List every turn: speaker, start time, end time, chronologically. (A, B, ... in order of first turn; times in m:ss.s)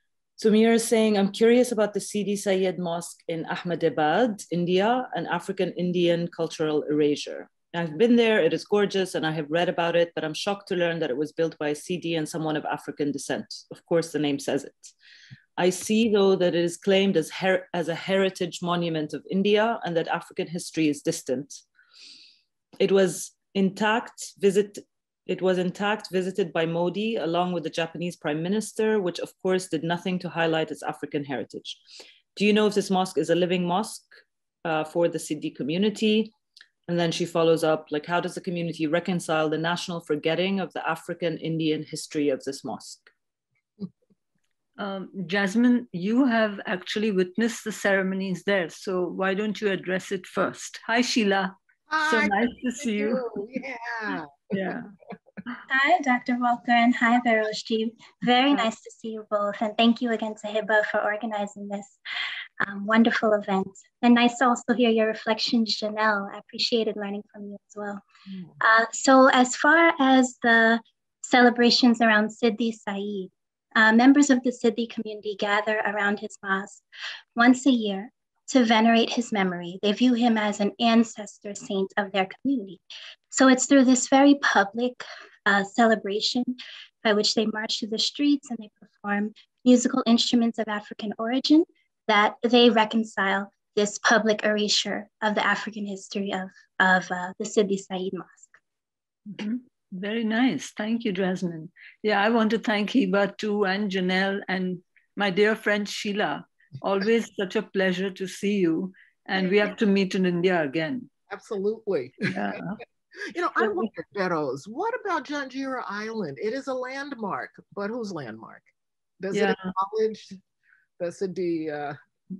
0:00.4-0:14.9 A
0:15.6-0:21.6 A
0:22.8-0:31.8 A
0:32.3-0:34.1 A
0:34.6-0:36.3 A
0:36.9-0:43.1 A
0:44.8-0:51.5 B
0:51.9-0:54.8 C
0:52.0-0:53.3 B
0:54.5-0:54.9 B
0:55.7-1:02.0 D
1:02.6-1:08.0 D
1:08.3-1:08.5 C
1:08.6-1:16.8 D
1:17.4-1:38.6 D
1:39.4-1:51.1 B
1:51.3-1:52.5 C
1:52.2-1:52.8 B
1:53.2-1:58.7 C
1:53.6-1:53.9 B
1:59.2-2:00.4 C
1:59.3-1:59.6 B
2:01.0-2:02.0 C